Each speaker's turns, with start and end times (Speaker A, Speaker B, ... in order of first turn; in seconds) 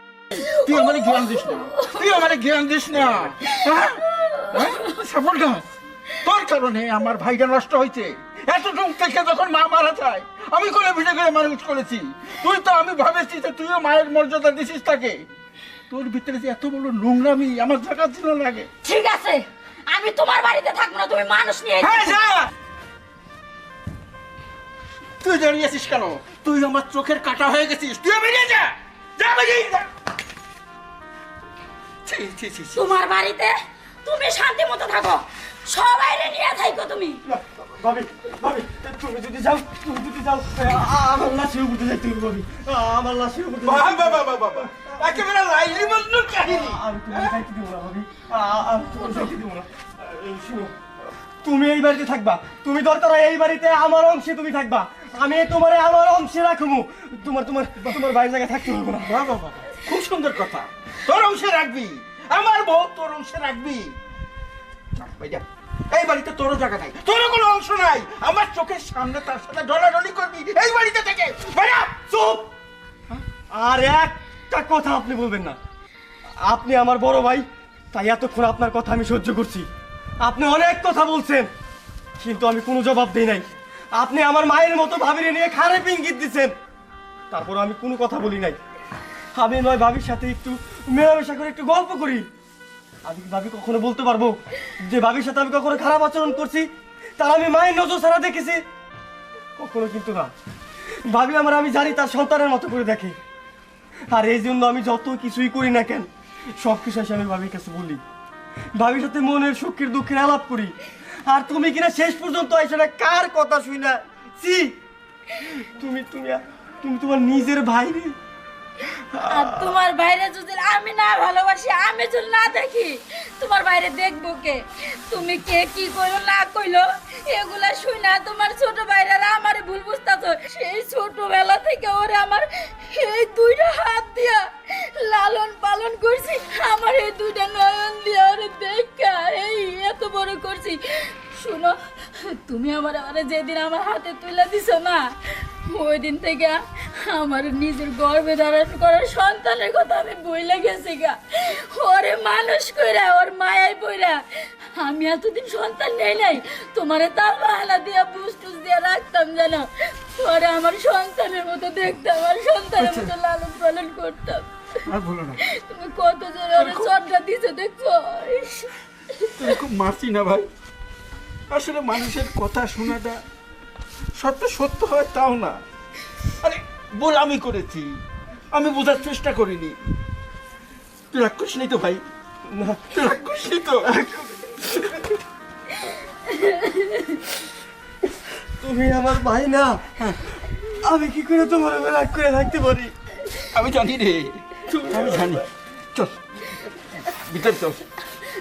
Speaker A: 0.3-5.7, 6.2-15.2, 15.9-18.7, 21.8-22.5, 25.2-29.9, 32.0-32.9, 43.6-47.4, 57.8-58.1, 59.0-64.0, 65.0-72.0, 162.8-163.1, 164.9-165.4, 166.6-166.9, 169.4-170.5, 171.5-173.2, 174.2-175.6, 176.4-178.0, 178.5-179.8, 181.1-182.0, 182.9-184.1, 193.5-196.2, 197.0-197.8
Speaker B: 0.4-2.2, 3.5-4.8, 18.8-22.2, 32.7-37.2, 119.2-145.0, 145.7-164.4, 165.4-168.7, 186.4-187.1
Speaker C: 37.3-44.3, 46.5-50.7, 51.4-59.1, 73.5-75.6, 76.5-79.7, 80.2-81.5, 82.2-86.5, 87.3-88.6, 89.3-92.2, 93.0-98.6, 99.6-100.3, 101.1-103.2, 104.1-106.1, 106.6-108.0, 108.8-110.7, 111.3-114.7, 115.8-118.1, 182.5-182.8, 188.6-189.8, 190.8-192.9, 194.7-195.2